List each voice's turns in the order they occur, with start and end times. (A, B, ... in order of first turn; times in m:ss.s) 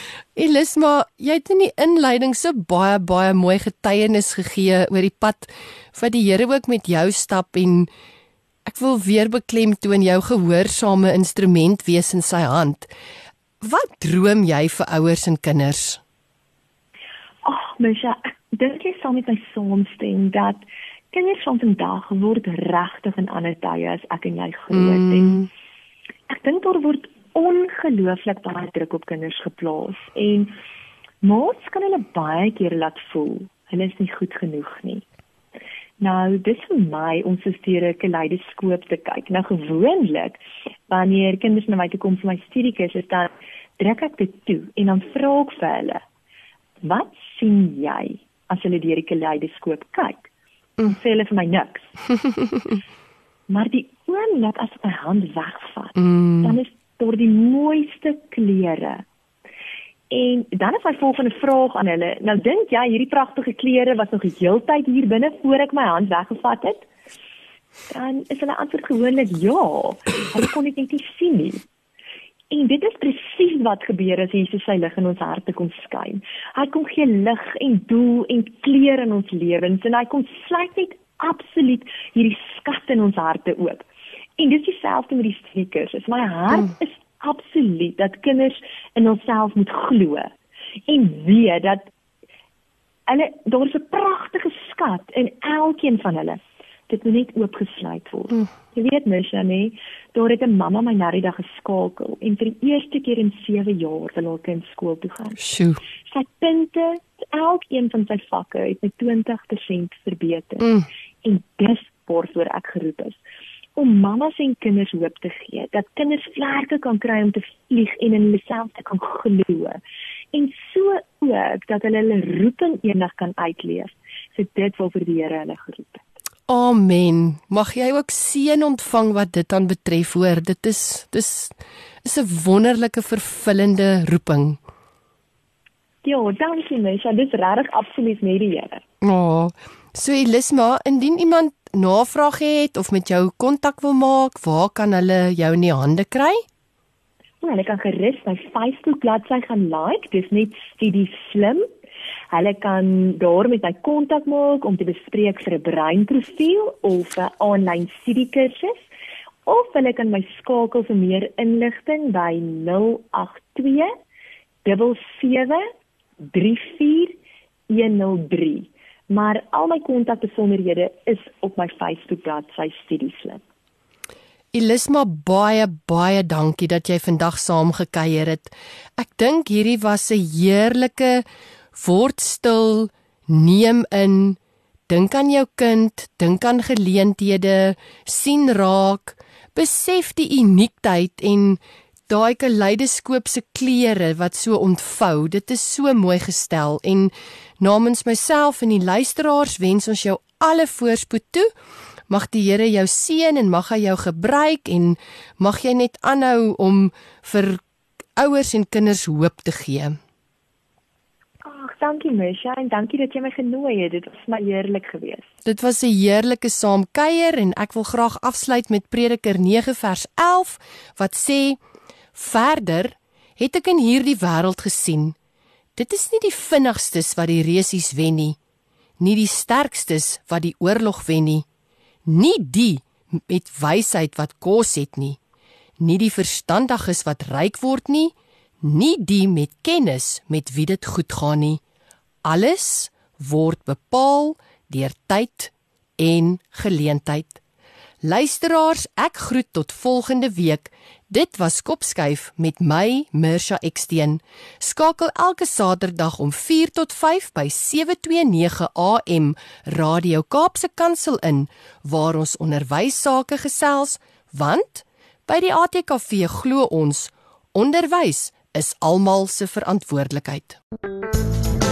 0:00.3-0:07.9 A
0:08.6-0:12.9 A
0:13.6-0:16.0 A
0:17.4-0:25.5 B
0:24.7-0:25.4 A
0:26.3-0:30.5 B
0:31.2-0:35.0 B
0:36.0-0:46.0 B
0:46.8-0:50.3 B
0:50.8-0:51.9 B
0:53.5-0:59.0 B
0:56.0-0:56.5 A
1:00.1-1:06.9 B
1:07.9-1:11.6 B
1:12.5-1:23.8 B
1:24.4-1:30.3 B
1:30.9-1:31.9 B
1:33.1-1:45.4 B
1:45.4-1:45.8 A
1:46.1-1:53.2 B
1:53.8-1:59.8 B
2:00.3-2:06.0 B
2:06.5-2:14.6 A
2:16.0-2:18.8 B
2:19.0-2:26.4 A
2:27.4-2:31.7 B
2:32.3-2:38.8 B
2:39.4-2:43.9 B
2:44.6-2:45.6 B
2:46.2-2:47.2 B
2:47.7-2:53.4 B
2:54.5-3:21.5 A
3:22.1-3:27.6 A
3:28.2-3:30.0 A
3:31.4-3:35.3 B
3:35.4-3:41.6 A
3:42.1-3:45.1 A
3:45.8-3:48.4 A
3:49.0-3:51.4 A
3:52.0-3:55.2 A
3:55.8-4:01.6 A
4:02.2-4:07.4 A
4:08.0-4:30.6 A